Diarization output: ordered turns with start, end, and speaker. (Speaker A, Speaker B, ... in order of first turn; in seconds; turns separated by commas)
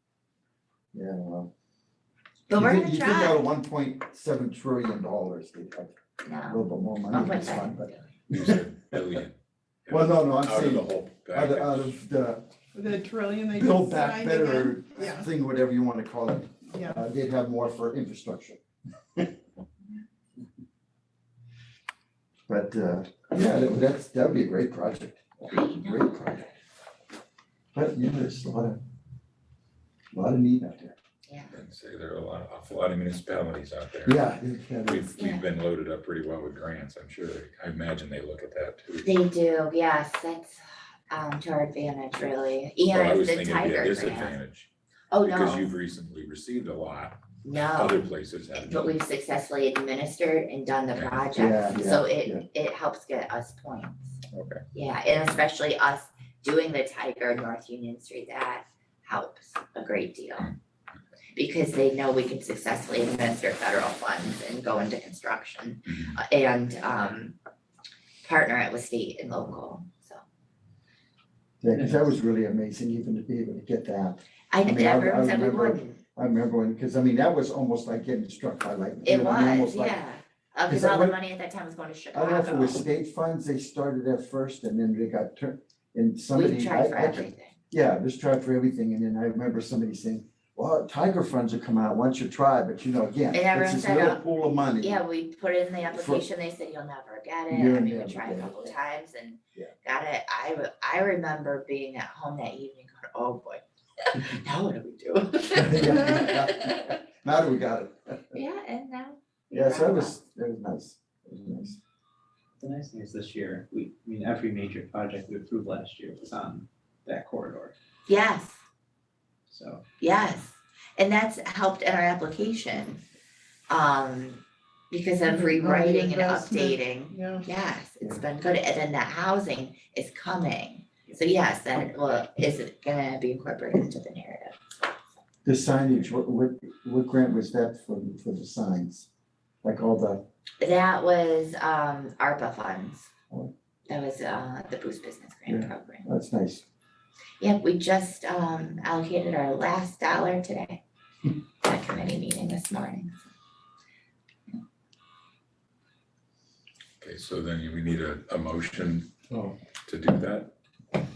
Speaker A: 0.9-1.5, Speaker B: 2.5-3.4, Speaker A: 2.5-5.9, Speaker B: 6.2-8.1, Speaker A: 6.5-8.7, Speaker C: 8.3-9.3, Speaker C: 9.8-12.0, Speaker A: 9.9-12.5, Speaker D: 12.7-15.3, Speaker A: 13.5-18.6, Speaker D: 16.7-17.0, Speaker A: 22.5-26.5, Speaker B: 25.5-26.2, Speaker A: 27.7-28.8, Speaker A: 30.1-30.9, Speaker B: 31.3-31.5, Speaker C: 31.5-39.1, Speaker A: 34.0-35.1, Speaker B: 35.2-35.5, Speaker B: 39.0-44.4, Speaker C: 42.9-44.7, Speaker B: 45.1-45.7, Speaker C: 45.2-49.0, Speaker B: 47.4-48.0, Speaker B: 48.5-54.2, Speaker C: 50.9-51.3, Speaker A: 51.3-52.4, Speaker C: 54.3-54.6, Speaker B: 54.7-60.5, Speaker B: 61.3-67.3, Speaker B: 68.2-70.2, Speaker A: 71.6-80.0, Speaker E: 71.7-72.1, Speaker B: 74.5-76.0, Speaker B: 79.0-82.8, Speaker A: 80.7-81.2, Speaker A: 82.1-95.0, Speaker B: 86.3-87.5, Speaker B: 93.3-94.2, Speaker B: 94.8-106.8, Speaker A: 95.9-96.2, Speaker A: 97.5-98.7, Speaker A: 105.6-108.2, Speaker B: 108.3-110.2, Speaker A: 109.5-111.8, Speaker E: 112.6-117.7, Speaker B: 118.1-118.6, Speaker E: 119.5-119.8, Speaker B: 120.0-123.0, Speaker B: 123.7-134.6, Speaker D: 125.3-127.4, Speaker A: 135.4-139.1, Speaker A: 139.6-140.2, Speaker B: 140.6-143.1, Speaker B: 143.9-146.1, Speaker A: 145.5-146.6, Speaker B: 147.4-150.8, Speaker B: 151.6-153.2, Speaker C: 157.0-160.5